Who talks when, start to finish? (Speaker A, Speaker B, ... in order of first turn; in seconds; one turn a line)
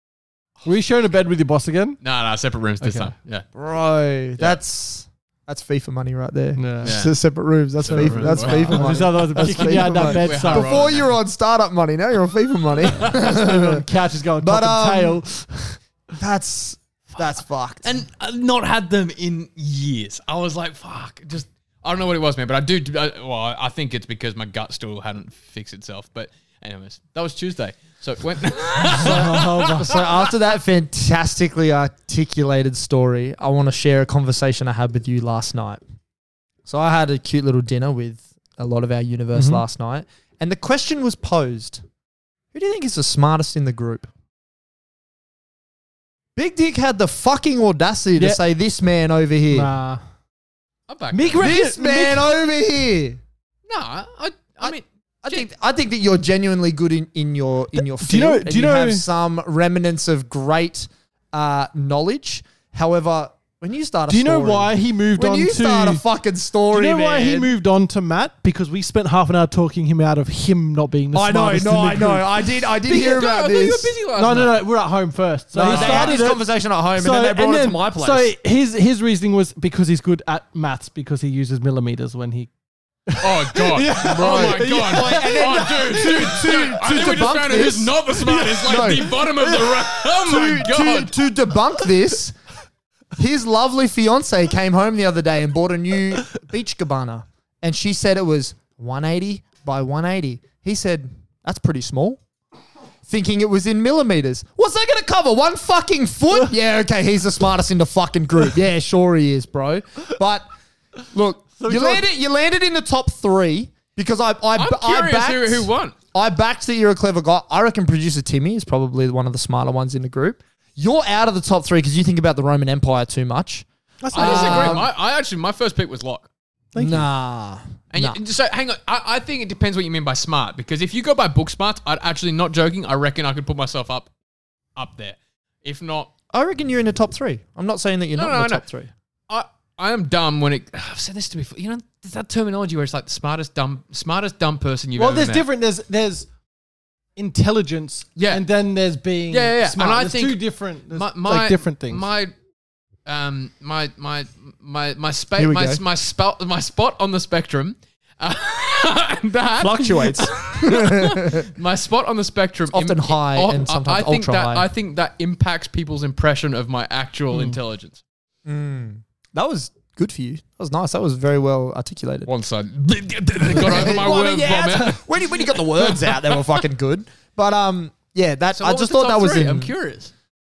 Speaker A: 0.6-2.0
Speaker B: 2.0-3.5
Speaker A: 2.8-3.1
Speaker C: 3.5-13.8
Speaker A: 6.6-6.9
Speaker B: 6.8-7.2
Speaker B: 7.8-11.1
Speaker A: 7.9-10.9
Speaker A: 13.0-15.8
Speaker C: 14.4-15.2
Speaker C: 16.2-17.9
Speaker B: 17.8-30.1
Speaker A: 28.9-30.0
Speaker C: 29.0-35.8
Speaker C: 36.7-41.8
Speaker A: 39.3-39.6
Speaker C: 42.5-44.1
Speaker C: 46.4-49.7
Speaker A: 49.5-50.0
Speaker B: 50.9-51.5
Speaker A: 51.1-52.3
Speaker C: 51.4-53.2
Speaker B: 53.7-55.5
Speaker C: 54.6-67.5
Speaker A: 57.8-59.0
Speaker A: 64.1-66.0
Speaker A: 66.7-72.3
Speaker C: 71.1-73.9
Speaker B: 72.9-74.6
Speaker A: 74.2-82.5
Speaker C: 75.5-78.3
Speaker B: 75.6-76.2
Speaker A: 83.1-86.8
Speaker B: 83.2-91.1
Speaker C: 84.0-89.2
Speaker A: 88.3-89.9
Speaker C: 90.2-92.4
Speaker C: 93.2-102.2
Speaker C: 103.1-110.5
Speaker C: 111.1-124.9
Speaker A: 111.6-112.0
Speaker B: 114.6-116.0
Speaker A: 124.0-124.8
Speaker B: 124.1-126.3
Speaker A: 126.7-127.1
Speaker C: 126.8-128.2
Speaker B: 127.9-134.1
Speaker B: 134.8-136.1
Speaker C: 136.3-138.9
Speaker B: 138.2-138.7
Speaker B: 139.3-145.5
Speaker A: 145.0-146.3
Speaker A: 147.2-152.1
Speaker B: 148.2-148.4
Speaker B: 149.3-152.3
Speaker B: 153.1-168.0
Speaker C: 155.4-155.8
Speaker C: 159.6-161.5
Speaker C: 162.7-164.7
Speaker C: 168.5-172.3
Speaker B: 172.3-175.6
Speaker C: 173.5-179.7
Speaker B: 178.5-180.1